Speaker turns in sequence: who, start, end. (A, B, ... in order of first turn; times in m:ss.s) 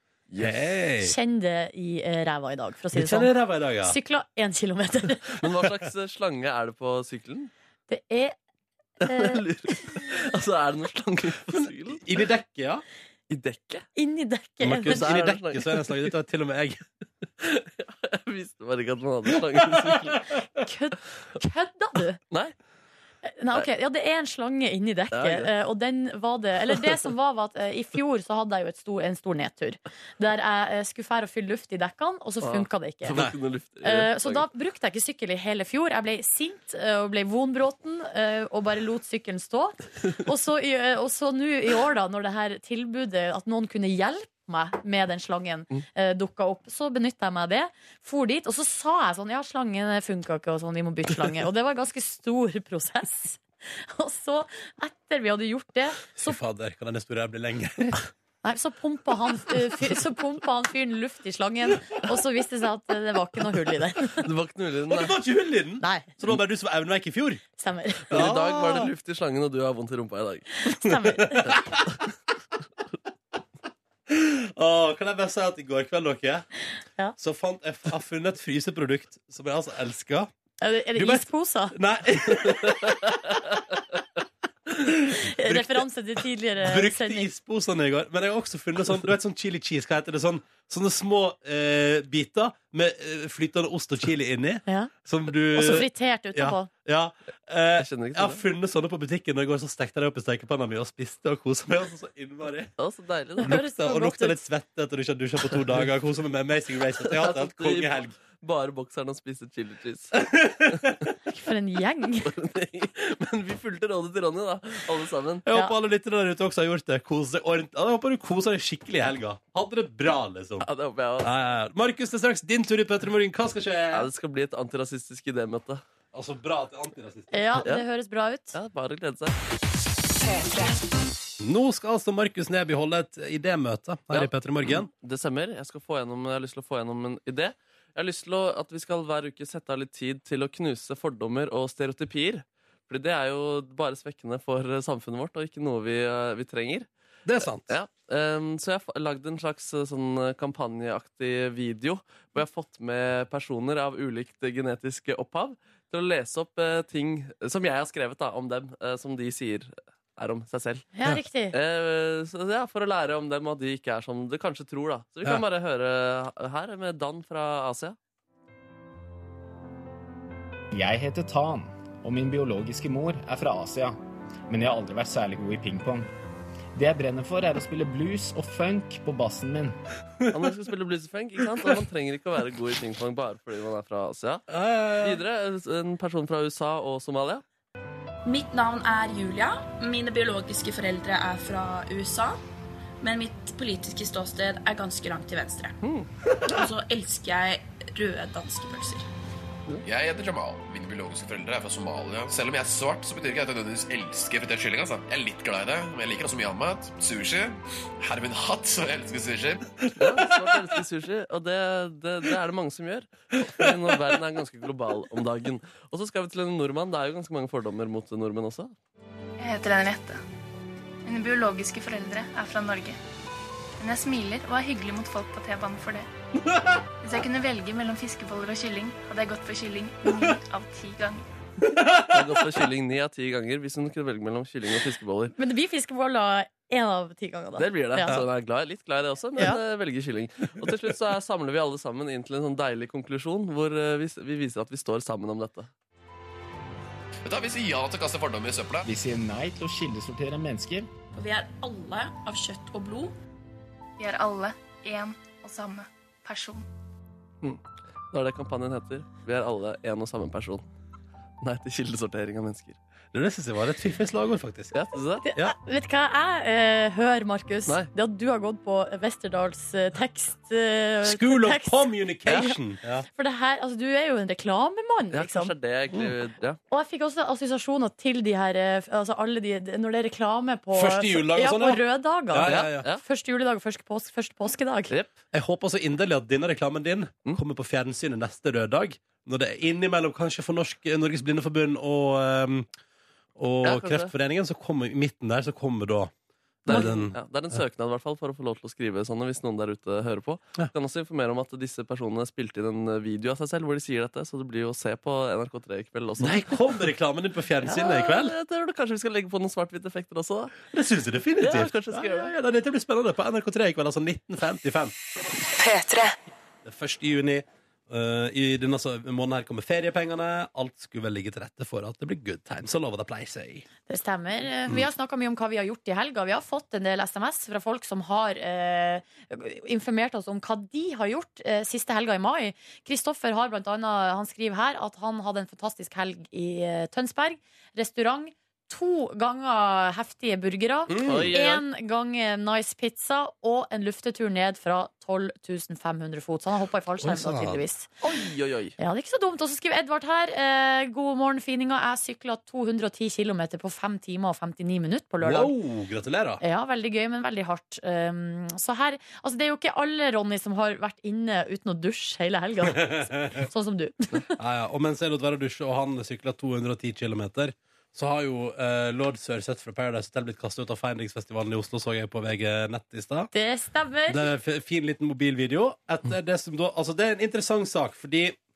0:00.3-0:00.7 A
0:00.4-0:01.1 B
0:01.0-0:05.4 C
0:02.9-0:04.0 B
0:05.4-0:07.5 A
0:07.9-0:08.3 C
0:09.0-0:12.0 A
0:09.0-0:09.4 C
0:11.5-0:12.8 B
0:13.3-0:13.9 A
0:13.9-0:15.0 C
0:14.6-0:16.8 B
0:14.8-0:16.0 A
0:17.4-0:20.2 A
0:19.6-0:20.1 B
0:20.6-0:22.2 C
0:23.2-0:33.2 C
0:25.1-0:25.5 A
0:32.4-0:34.4 A
0:33.8-0:56.4 C
0:56.2-0:58.1 B
0:58.4-1:04.2 C
1:04.1-1:05.1 A
1:04.9-1:07.4 B
1:05.8-1:06.1 C
1:07.6-1:08.4 C
1:08.1-1:08.9 B
1:08.1-1:10.5 A
1:10.6-1:11.5 C
1:10.9-1:11.8 B
1:14.1-1:16.4 B
1:17.2-1:20.3 B
1:20.6-1:21.7 C
1:21.0-1:23.1 B
1:24.8-1:25.8 B
1:25.2-1:27.3 C
1:26.6-1:42.7 B
1:34.7-1:34.9 C
1:35.5-1:36.7 C
1:37.8-1:38.4 A
1:42.8-1:43.6 A
1:43.4-1:48.1 B
1:43.4-1:44.4 C
1:47.0-1:50.2 A
1:50.1-1:51.0 B
1:51.3-1:52.3 C
1:52.2-1:55.4 A
1:55.4-2:00.7 B
2:00.6-2:01.3 A
2:01.2-2:04.1 B
2:03.9-2:05.8 A
2:06.1-2:07.6 B
2:07.3-2:08.6 C
2:08.5-2:09.3 A
2:11.4-2:14.9 B
2:14.1-2:26.9 A
2:27.2-2:27.7 B
2:27.6-2:40.9 A
2:41.0-2:41.5 C
2:41.5-2:48.0 A
2:50.7-2:54.0 D
2:54.5-2:56.1 D
2:56.7-2:59.8 D
3:00.3-3:07.4 A
3:04.5-3:05.2 B
3:08.2-3:12.4 E
3:13.0-3:15.8 E
3:15.8-3:16.1 A
3:16.5-3:19.1 E
3:19.8-3:29.6 F
3:30.0-3:38.7 A
3:39.4-3:40.2 G
3:41.0-3:43.0 G
3:43.8-3:46.1 G
3:47.0-3:51.2 G
3:51.7-3:52.4 B
3:52.1-3:55.3 A
3:55.4-3:58.2 C
3:57.6-4:05.7 A
4:07.2-4:08.8 F
4:08.8-4:10.9 D
4:11.1-4:13.2 E
4:14.0-4:16.7 G
4:17.4-4:20.6 A
4:21.4-4:22.8 A
4:23.1-4:24.8 B
4:24.7-4:25.2 A
4:25.2-4:32.5 C
4:31.0-4:33.0 B
4:33.1-4:35.5 C
4:35.1-4:36.6 A
4:36.7-4:44.9 C
4:40.7-4:42.8 B
4:42.4-4:43.0 A
4:45.3-4:52.7 B
4:53.4-4:56.1 B
4:53.6-4:54.1 A
4:56.6-4:57.2 B
4:56.6-5:06.8 A
5:06.2-5:08.3 B
5:07.6-5:10.7 A
5:10.7-5:14.9 B
5:11.4-5:12.3 A
5:16.6-5:23.6 B
5:23.9-5:47.9 C
5:40.9-5:41.3 B
5:41.0-5:41.6 A
5:47.0-5:47.6 B
5:48.0-5:48.8 A
5:48.8-5:55.5 C
5:55.2-5:56.4 B
5:56.4-6:04.4 C
6:02.8-6:03.4 B
6:04.4-6:13.3 B
6:13.3-6:14.3 C
6:14.1-6:18.4 B